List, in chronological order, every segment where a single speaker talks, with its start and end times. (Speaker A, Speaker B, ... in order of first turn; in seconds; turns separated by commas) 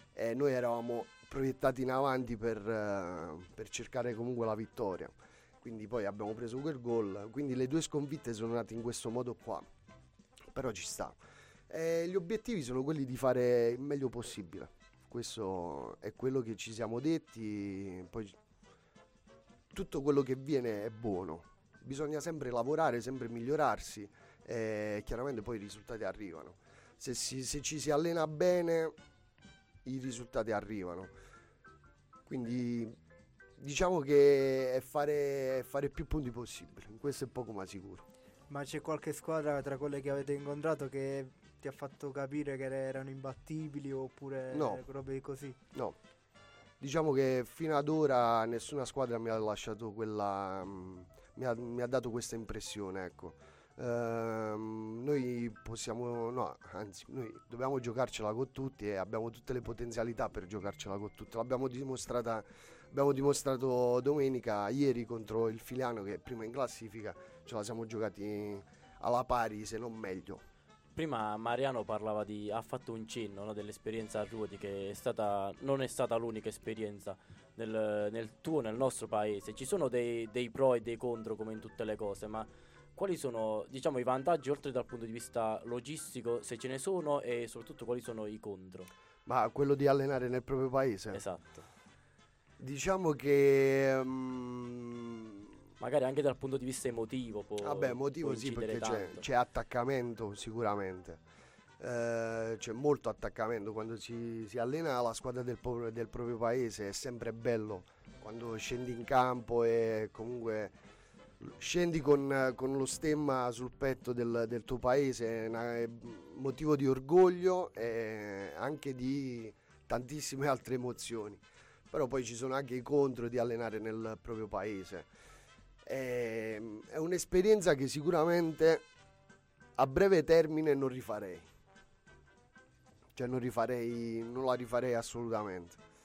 Speaker A: 0.1-9.7, Speaker A: 10.5-11.2, Speaker A: 11.7-18.4, Speaker A: 19.7-28.9, Speaker A: 29.9-31.1, Speaker A: 32.3-33.0, Speaker A: 33.6-38.0, Speaker B: 38.5-45.6, Speaker A: 44.5-44.8, Speaker A: 46.8-70.4, Speaker C: 71.0-88.9, Speaker A: 89.3-91.2, Speaker C: 91.1-91.7, Speaker A: 92.6-95.4, Speaker C: 95.8-99.2, Speaker A: 97.6-101.2, Speaker A: 101.8-110.7, Speaker A: 111.4-125.1, Speaker A: 125.9-128.8, Speaker A: 129.8-131.4, Speaker A: 133.2-135.8